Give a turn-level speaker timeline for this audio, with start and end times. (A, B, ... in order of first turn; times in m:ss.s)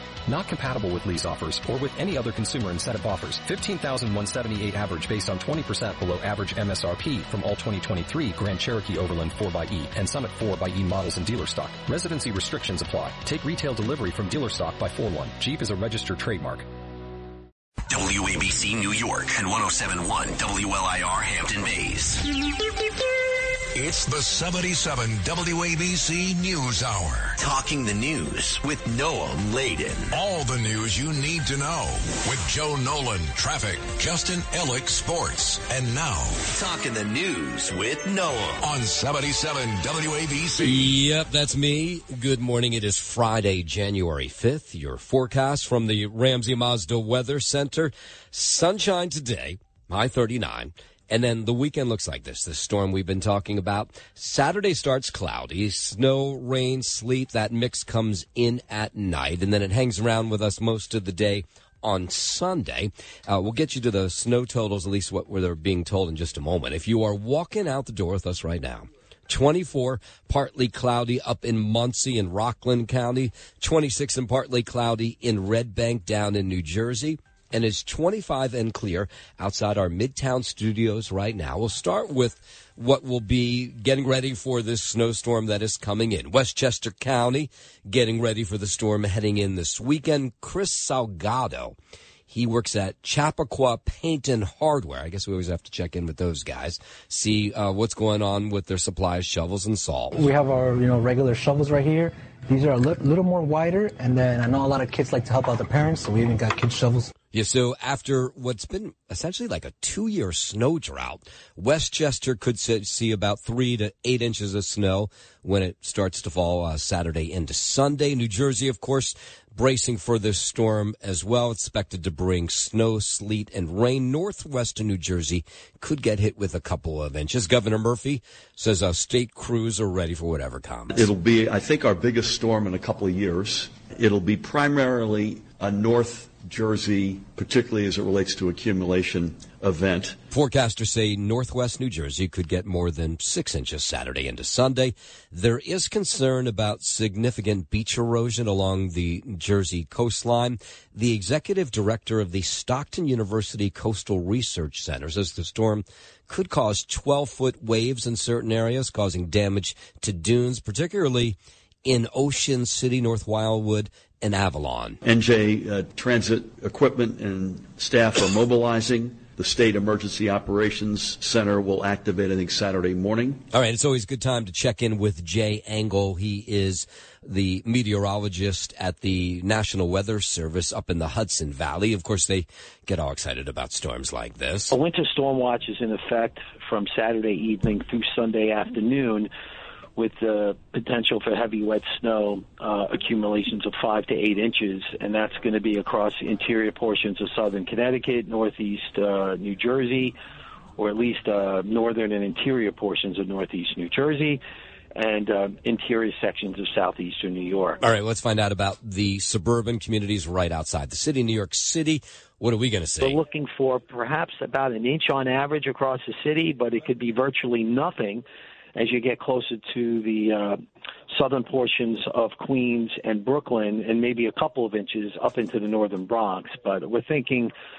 0:00.2-0:16.7 A
0:17.9-0:22.2 B
0:23.7-0:27.3 C
0:27.4-0:30.2 B
0:30.1-0:36.4 C
0:36.5-0:38.7 B
0:38.6-0:40.9 C
0:40.6-1:31.7 D
1:32.3-1:40.2 D
1:40.1-1:47.1 E
1:47.3-2:11.1 D
2:10.9-2:20.2 F
2:20.3-2:45.0 D
2:45.0-2:53.4 F
2:53.5-3:04.7 D
3:04.7-3:09.3 G
3:10.0-3:20.1 G
3:20.8-3:24.4 G
3:25.0-3:27.8 G
3:27.8-3:33.2 D
3:33.0-3:38.2 G
3:38.8-3:40.6 G
3:41.1-3:47.5 G